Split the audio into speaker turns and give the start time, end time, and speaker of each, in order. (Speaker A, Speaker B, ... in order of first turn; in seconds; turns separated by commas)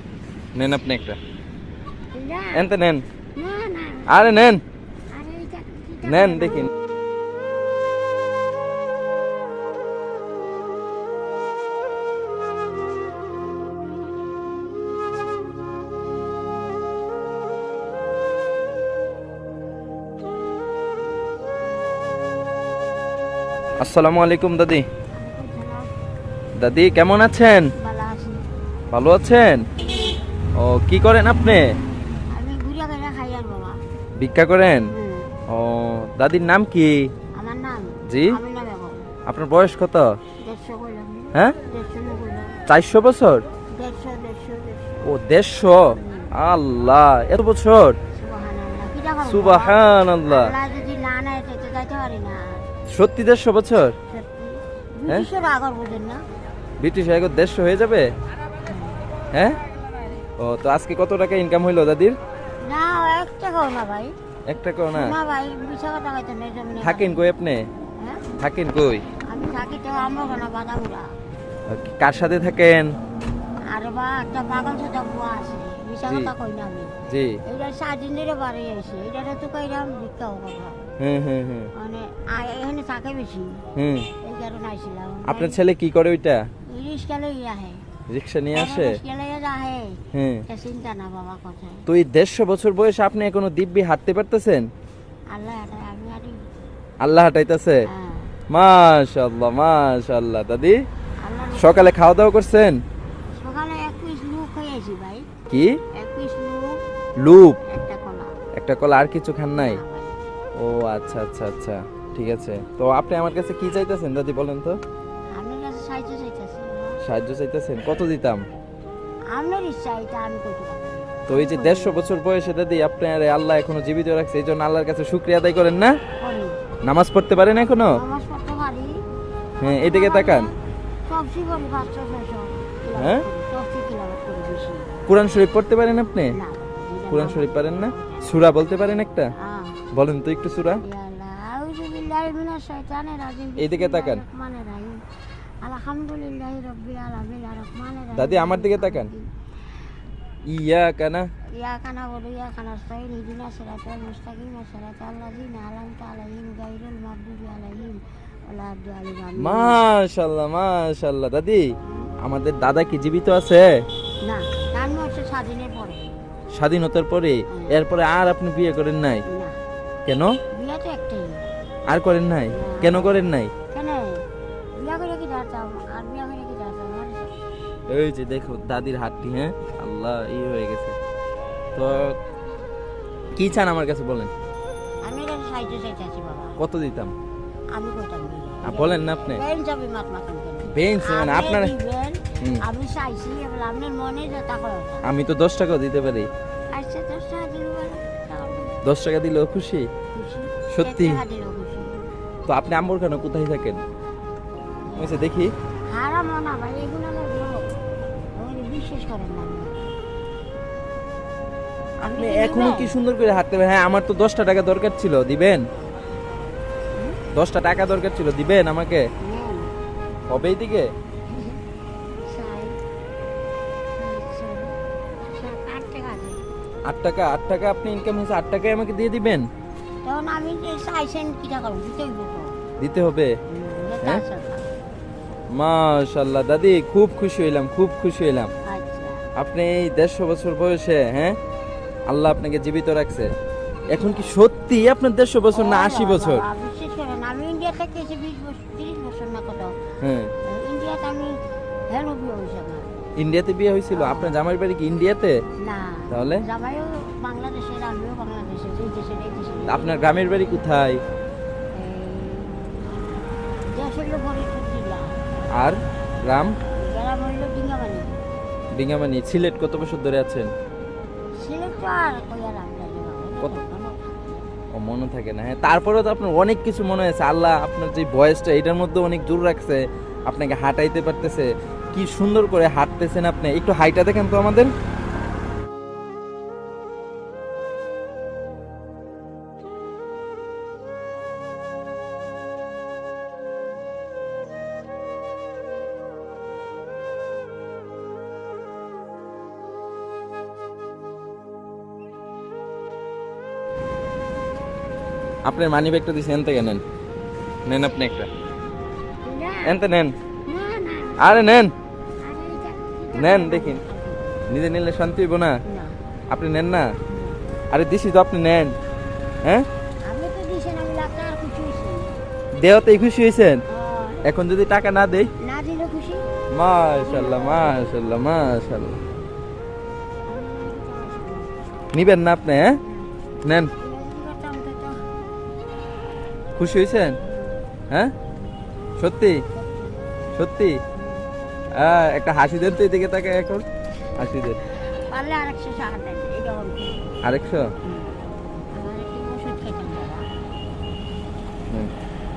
Speaker A: 0.6-1.2, Speaker B: 2.1-2.8, Speaker A: 2.5-3.0, Speaker B: 3.4-4.2, Speaker A: 4.1-4.6, Speaker B: 5.1-6.7, Speaker A: 6.0-6.7, Speaker A: 23.8-24.9, Speaker B: 25.1-25.9, Speaker A: 26.6-27.7, Speaker B: 27.8-28.4, Speaker A: 28.9-29.6, Speaker B: 29.8-30.1, Speaker A: 30.6-31.7, Speaker B: 32.3-33.8, Speaker A: 34.2-34.9, Speaker B: 34.9-35.3, Speaker A: 35.5-37.1, Speaker B: 37.4-39.0, Speaker A: 38.1-38.4, Speaker A: 39.3-40.1, Speaker B: 40.4-42.6, Speaker A: 42.7-43.4, Speaker B: 43.8-45.0, Speaker A: 45.0-48.0, Speaker B: 45.9-46.3, Speaker B: 48.1-52.6, Speaker A: 49.2-50.5, Speaker A: 52.9-54.0, Speaker B: 54.1-56.2, Speaker A: 56.8-58.1, Speaker B: 58.6-59.0, Speaker A: 60.4-62.2, Speaker B: 62.7-64.1, Speaker A: 64.5-65.1, Speaker B: 64.9-67.2, Speaker A: 66.8-67.7, Speaker B: 68.0-68.3, Speaker A: 68.4-69.0, Speaker B: 69.3-71.1, Speaker A: 71.7-72.9, Speaker B: 73.7-80.9, Speaker A: 76.1-76.3, Speaker A: 77.1-77.4, Speaker A: 81.0-81.7, Speaker B: 81.8-83.7, Speaker A: 83.8-84.1, Speaker B: 84.2-85.6, Speaker A: 85.3-86.5, Speaker B: 86.7-87.8, Speaker A: 88.1-89.0, Speaker B: 88.5-91.8, Speaker A: 90.1-90.4, Speaker A: 91.9-94.7, Speaker B: 95.3-96.4, Speaker A: 97.0-97.8, Speaker B: 97.9-98.4, Speaker A: 98.5-100.8, Speaker B: 101.2-102.0, Speaker A: 101.6-102.8, Speaker B: 103.4-105.3, Speaker A: 105.5-105.8, Speaker B: 106.0-106.8, Speaker A: 107.2-107.6, Speaker B: 107.7-108.4, Speaker A: 108.6-109.8, Speaker B: 109.5-110.2, Speaker A: 110.6-114.8, Speaker B: 115.4-117.0, Speaker A: 117.0-118.4, Speaker B: 119.3-122.1, Speaker A: 121.3-126.0, Speaker B: 126.2-126.6, Speaker A: 126.9-128.0, Speaker B: 127.9-128.9, Speaker A: 129.6-130.5, Speaker B: 129.6-130.6, Speaker B: 131.1-135.0, Speaker A: 133.0-133.2, Speaker A: 135.1-136.3, Speaker B: 136.3-138.3, Speaker A: 137.1-139.3, Speaker B: 139.4-139.8, Speaker A: 139.9-140.8, Speaker B: 140.8-145.0, Speaker A: 143.6-144.2, Speaker B: 145.6-149.3, Speaker A: 148.2-149.1, Speaker A: 150.5-151.3, Speaker B: 151.6-159.8, Speaker A: 159.4-161.7, Speaker B: 161.8-162.1, Speaker A: 162.2-163.7, Speaker B: 164.2-166.1, Speaker A: 166.6-169.2, Speaker B: 169.3-169.6, Speaker A: 170.1-170.4, Speaker B: 170.5-171.5, Speaker A: 171.9-173.5, Speaker B: 172.5-173.2, Speaker B: 173.7-174.2, Speaker B: 174.8-177.3, Speaker A: 177.9-181.0, Speaker A: 181.8-182.2, Speaker A: 183.4-184.3, Speaker B: 185.0-186.6, Speaker A: 186.6-187.1, Speaker B: 187.8-195.1, Speaker A: 188.6-189.4, Speaker A: 190.7-191.7, Speaker A: 195.0-196.3, Speaker B: 196.7-198.8, Speaker A: 198.8-199.9, Speaker B: 200.1-202.1, Speaker A: 200.7-201.2, Speaker A: 202.5-203.8, Speaker B: 204.9-205.3, Speaker A: 205.0-205.5, Speaker B: 205.9-207.7, Speaker B: 208.4-209.8, Speaker A: 212.0-215.6, Speaker B: 212.1-213.0, Speaker A: 217.3-219.0, Speaker B: 219.2-219.7, Speaker A: 220.3-220.9, Speaker B: 221.3-221.6, Speaker B: 222.3-222.8, Speaker B: 224.0-224.7, Speaker B: 225.3-226.4, Speaker A: 226.9-229.4, Speaker B: 230.0-232.6, Speaker A: 232.8-233.3, Speaker B: 233.5-234.7, Speaker A: 235.6-238.5, Speaker B: 238.7-239.2, Speaker A: 239.4-241.4, Speaker A: 242.1-243.3, Speaker B: 243.9-244.3, Speaker A: 243.9-246.4, Speaker B: 245.5-249.8, Speaker A: 250.0-250.3, Speaker B: 250.4-251.4, Speaker B: 251.9-252.9, Speaker A: 253.2-255.4, Speaker B: 253.9-254.4, Speaker B: 255.6-259.9, Speaker A: 256.1-256.4, Speaker A: 259.7-261.0, Speaker B: 261.7-263.2, Speaker B: 263.7-265.2, Speaker A: 265.5-266.5, Speaker B: 266.8-268.1, Speaker A: 268.8-270.5, Speaker B: 271.4-274.4, Speaker A: 274.8-284.7, Speaker A: 305.4-306.8, Speaker A: 307.7-308.3, Speaker B: 309.2-309.8, Speaker A: 309.6-310.1, Speaker B: 310.5-311.6, Speaker A: 311.2-311.7, Speaker B: 312.2-314.5, Speaker A: 313.1-313.8, Speaker A: 314.5-315.6, Speaker B: 315.7-316.0, Speaker A: 316.3-316.9, Speaker B: 317.1-317.4, Speaker A: 317.7-318.8, Speaker B: 320.1-322.2, Speaker A: 322.6-323.6, Speaker B: 323.7-324.2, Speaker A: 324.2-325.3, Speaker B: 325.4-326.2, Speaker A: 326.5-329.0, Speaker B: 327.0-327.8, Speaker B: 330.3-331.6, Speaker A: 331.9-332.8, Speaker B: 332.8-333.1, Speaker A: 333.4-333.7, Speaker B: 333.8-335.1, Speaker A: 336.6-337.2, Speaker B: 337.2-337.6, Speaker A: 339.0-339.4, Speaker B: 339.5-340.0, Speaker A: 340.4-340.8, Speaker B: 340.9-341.3, Speaker A: 341.8-343.6, Speaker A: 344.2-344.6, Speaker B: 344.7-347.2, Speaker A: 347.2-347.7, Speaker B: 347.8-348.2, Speaker B: 348.7-350.3